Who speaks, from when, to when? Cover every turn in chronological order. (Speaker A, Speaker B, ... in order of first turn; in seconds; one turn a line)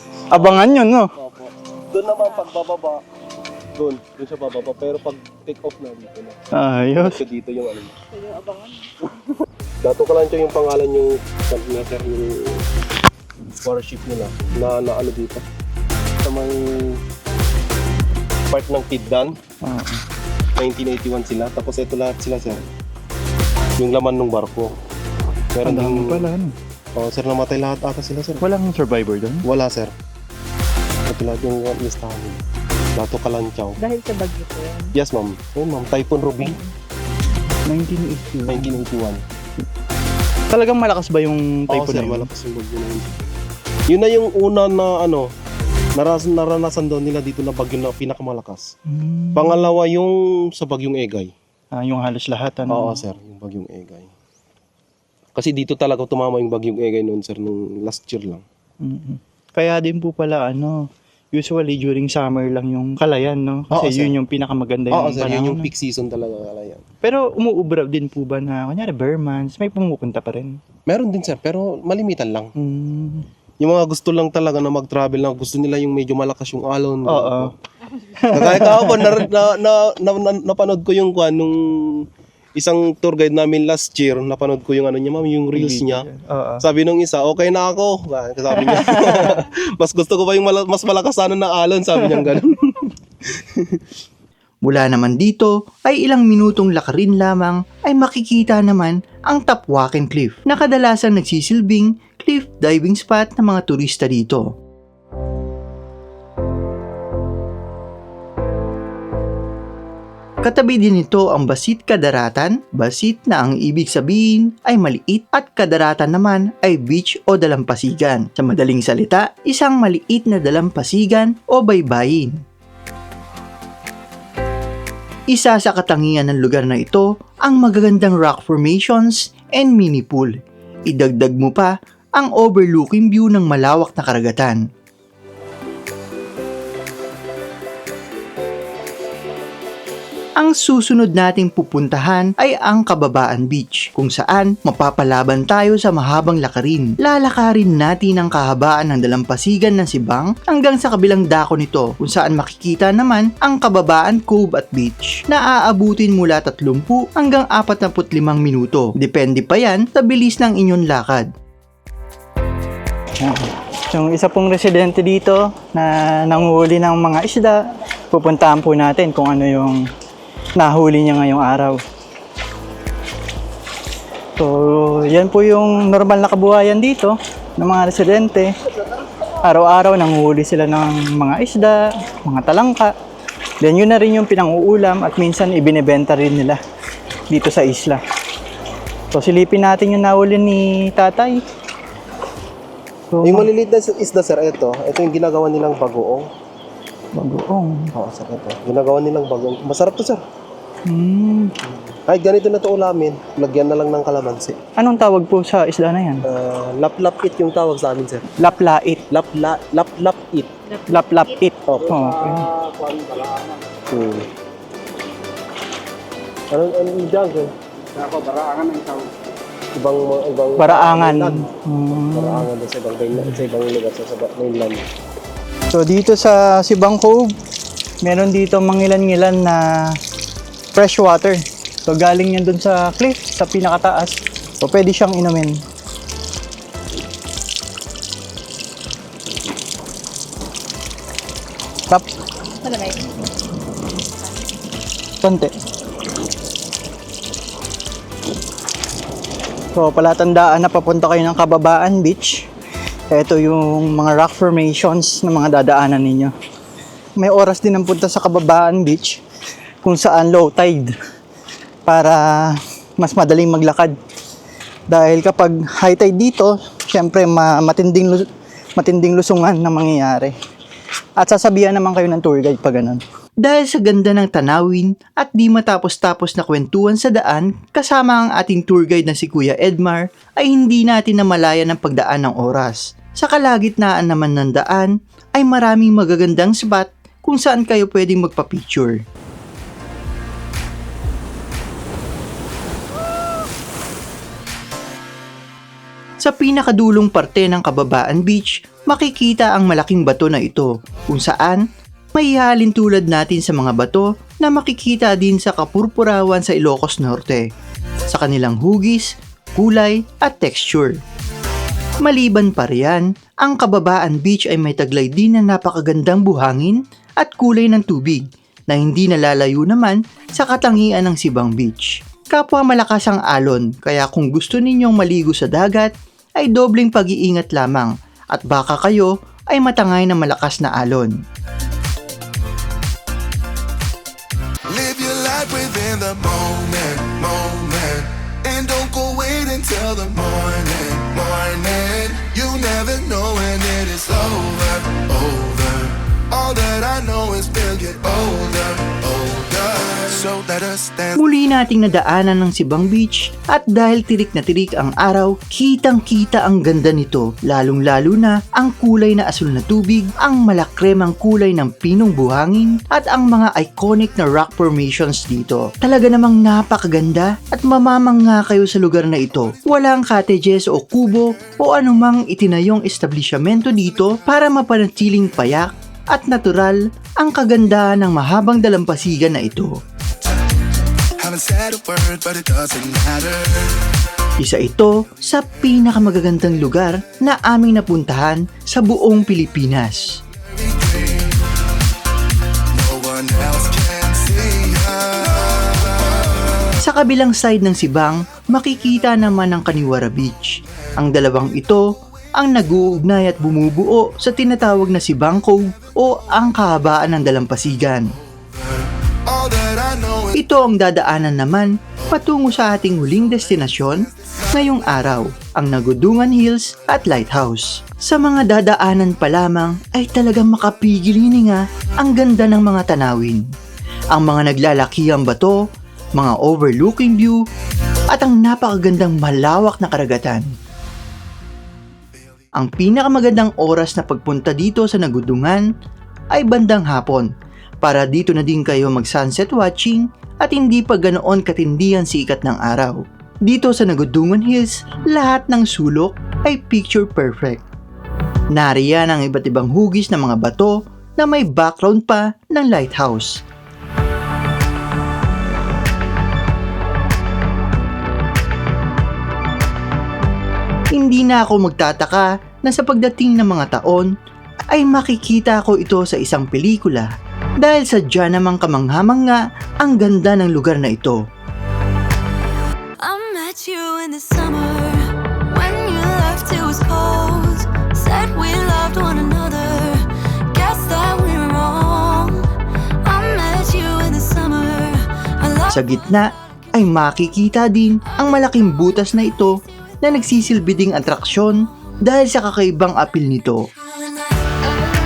Speaker A: 0.3-1.1
Speaker B: 0.3-0.6
Speaker B: 1.2-3.0
Speaker B: 3.8-6.4
Speaker A: 6.5-7.2
Speaker B: 7.0-8.0
Speaker B: 9.8-12.6
Speaker B: 13.6-15.4
Speaker B: 16.2-17.0
Speaker B: 18.5-19.4
Speaker A: 19.6-20.0
Speaker B: 20.6-22.6
Speaker B: 23.8-24.7
Speaker B: 25.6-26.3
Speaker A: 25.6-26.5
Speaker B: 27.0-28.4
Speaker A: 28.4-29.5
Speaker B: 29.4-29.9
Speaker B: 31.1-32.4
Speaker B: 33.0-33.8
Speaker A: 34.0-34.8
Speaker B: 34.9-36.6
Speaker A: 37.7-38.8
Speaker B: 38.5-39.2
Speaker A: 40.5-42.3
Speaker B: 41.7-43.3
Speaker B: 43.9-45.3
Speaker B: 46.0-48.7
Speaker A: 48.9-49.7
Speaker B: 49.4-51.3
Speaker A: 51.7-53.0
Speaker B: 52.7-54.1
Speaker B: 55.4-58.4
Speaker A: 58.8-65.7
Speaker B: 63.7-64.1
Speaker B: 64.9-66.8
Speaker A: 67.0-70.6
Speaker B: 70.9-72.5
Speaker A: 72.6-73.3
Speaker B: 73.6-77.5
Speaker A: 77.1-77.5
Speaker A: 78.2-79.2
Speaker B: 78.3-86.1
Speaker A: 85.5-86.7
Speaker B: 86.6-93.8
Speaker A: 88.7-89.3
Speaker C: 94.7-104.5
Speaker C: 110.4-122.4
Speaker C: 125.3-130.4
Speaker C: 130.9-134.6
Speaker C: 140.4-161.3
Speaker A: 163.2-167.6
Speaker A: 168.1-169.9
Speaker A: 170.6-171.8
Speaker A: 174.4-178.5
Speaker A: 179.4-182.9
Speaker A: 183.6-186.6
Speaker A: 187.3-188.0
Speaker A: 189.1-191.4
Speaker A: 193.1-193.5
Speaker B: 193.2-196.3
Speaker A: 197.2-197.9
Speaker B: 197.9-200.2
Speaker A: 200.9-201.5
Speaker B: 201.7-204.6
Speaker A: 204.8-206.2
Speaker B: 206.3-208.3
Speaker A: 208.4-209.1
Speaker B: 209.1-210.5
Speaker A: 210.9-212.5
Speaker B: 211.7-214.3
Speaker B: 216.5-219.1
Speaker B: 219.8-221.6
Speaker A: 220.6-222.5
Speaker B: 222.1-224.8
Speaker A: 225.7-227.3
Speaker A: 228.0-230.0
Speaker A: 230.7-235.6
Speaker A: 245.2-245.5
Speaker A: 249.7-252.5
Speaker A: 253.1-256.3
Speaker A: 257.2-259.2
Speaker A: 259.8-260.9
Speaker A: 261.9-264.0
Speaker A: 264.9-270.3
Speaker A: 271.2-273.0
Speaker C: 273.4-289.0
Speaker C: 296.2-301.6
Speaker C: 302.1-307.5
Speaker C: 308.1-311.0
Speaker C: 312.0-331.1
Speaker D: 334.7-351.1
Speaker C: 351.1-379.8
Speaker D: 381.2-383.8
Speaker C: 384.4-390.2
Speaker D: 390.6-391.3
Speaker D: 392.7-395.9
Speaker C: 396.8-408.1
Speaker D: 409.3-410.3
Speaker C: 410.3-423.4
Speaker C: 424.1-425.6
Speaker C: 426.2-427.4
Speaker C: 428.1-430.5
Speaker C: 432.6-435.6
Speaker C: 436.3-437.3
Speaker C: 437.8-447.6
Speaker C: 448.5-453.4
Speaker C: 460.9-464.1
Speaker C: 464.7-467.1
Speaker C: 467.6-471.2
Speaker E: 473.0-482.5
Speaker E: 483.0-485.7
Speaker C: 485.7-493.7
Speaker E: 494.0-494.3